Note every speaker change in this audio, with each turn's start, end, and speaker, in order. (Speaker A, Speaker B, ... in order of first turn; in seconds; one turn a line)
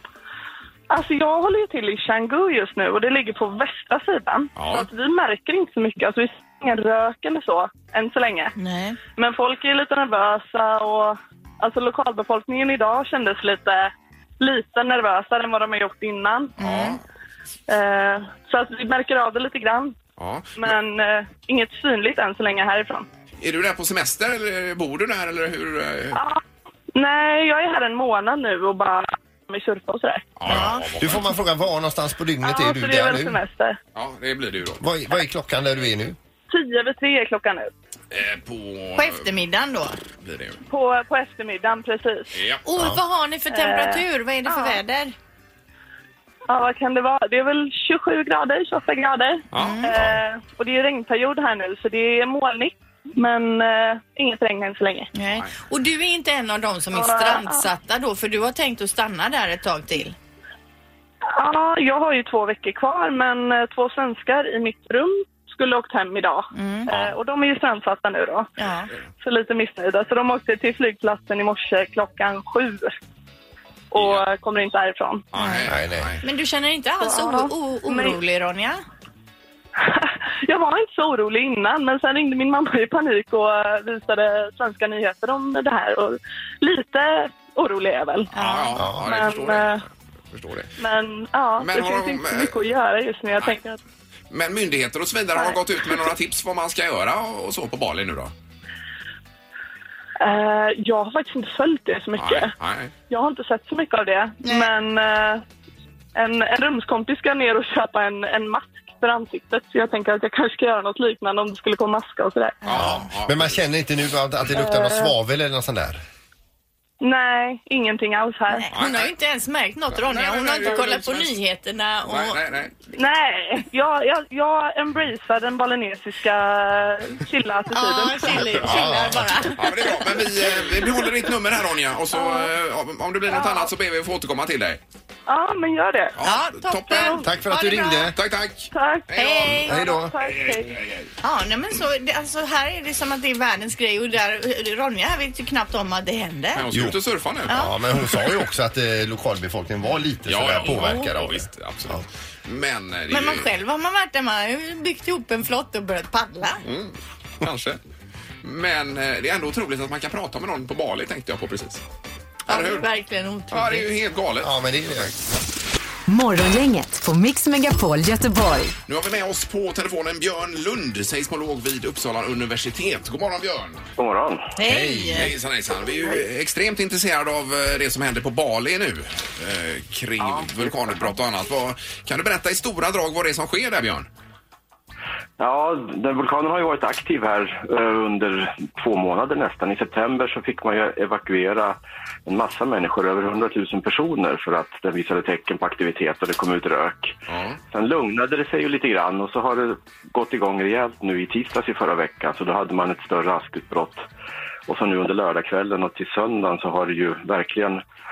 Speaker A: 0.9-8.5
Speaker B: 4.6-4.9
Speaker C: 8.6-9.0
Speaker A: 9.2-16.5
Speaker C: 16.6-17.0
Speaker B: 16.6-17.0
Speaker A: 17.7-20.0
Speaker B: 20.2-20.7
Speaker A: 20.6-23.1
Speaker B: 23.4-26.2
Speaker A: 26.1-26.4
Speaker A: 26.9-30.3
Speaker B: 30.4-31.3
Speaker C: 30.4-30.9
Speaker D: 30.5-33.4
Speaker A: 32.4-33.8
Speaker B: 33.9-34.8
Speaker D: 34.8-36.1
Speaker A: 36.5-37.7
Speaker B: 38.1-39.3
Speaker C: 39.0-40.0
Speaker B: 40.2-40.6
Speaker A: 40.7-42.3
Speaker B: 42.3-42.6
Speaker C: 42.6-45.1
Speaker A: 43.5-44.8
Speaker A: 46.5-55.1
Speaker B: 49.5-50.0
Speaker C: 49.5-49.9
Speaker C: 55.1-60.1
Speaker A: 56.9-57.6
Speaker A: 61.3-68.5
Speaker C: 66.5-66.9
Speaker C: 68.6-68.9
Speaker A: 69.2-72.9
Speaker A: 73.9-75.2
Speaker B: 73.9-74.2
Speaker B: 75.3-76.2
Speaker C: 75.4-75.7
Speaker D: 75.6-76.2
Speaker C: 76.2-78.8
Speaker A: 77.0-78.2
Speaker A: 79.8-88.3
Speaker C: 88.3-88.8
Speaker B: 88.4-90.7
Speaker D: 88.8-89.1
Speaker A: 89.0-89.8
Speaker A: 90.8-93.8
Speaker B: 91.6-92.6
Speaker B: 94.3-98.3
Speaker A: 100.2-102.5
Speaker B: 102.2-102.9
Speaker A: 103.1-105.4
Speaker C: 104.4-104.7
Speaker A: 106.1-112.7
Speaker C: 112.6-113.0
Speaker B: 112.7-113.6
Speaker D: 112.7-116.0
Speaker A: 114.6-115.1
Speaker A: 117.0-118.7
Speaker C: 118.5-122.4
Speaker B: 118.7-119.1
Speaker B: 119.9-121.3
Speaker B: 122.1-122.7
Speaker A: 122.9-128.4
Speaker C: 127.7-129.9
Speaker D: 128.5-129.5
Speaker B: 129.5-134.8
Speaker A: 132.2-132.5
Speaker A: 133.3-133.7
Speaker A: 135.3-136.2
Speaker B: 136.2-137.2
Speaker C: 136.2-138.1
Speaker A: 136.9-137.2
Speaker D: 137.2-138.2
Speaker B: 138.1-141.1
Speaker A: 138.7-140.8
Speaker C: 139.1-139.7
Speaker D: 139.7-140.1
Speaker C: 141.2-146.7
Speaker B: 146.5-147.7
Speaker D: 146.7-152.0
Speaker C: 147.5-147.7
Speaker B: 150.3-153.5
Speaker C: 150.6-151.1
Speaker C: 153.1-156.6
Speaker B: 156.6-157.8
Speaker B: 158.4-161.8
Speaker C: 162.5-163.9
Speaker B: 162.5-162.9
Speaker B: 163.5-165.1
Speaker D: 164.4-165.1
Speaker E: 166.1-168.7
Speaker B: 168.9-173.8
Speaker F: 174.0-174.5
Speaker C: 174.6-175.3
Speaker D: 174.6-175.3
Speaker B: 175.1-184.1
Speaker F: 180.2-180.7
Speaker F: 185.4-197.2
Speaker B: 197.3-197.6
Speaker F: 197.7-204.1
Speaker F: 204.7-207.8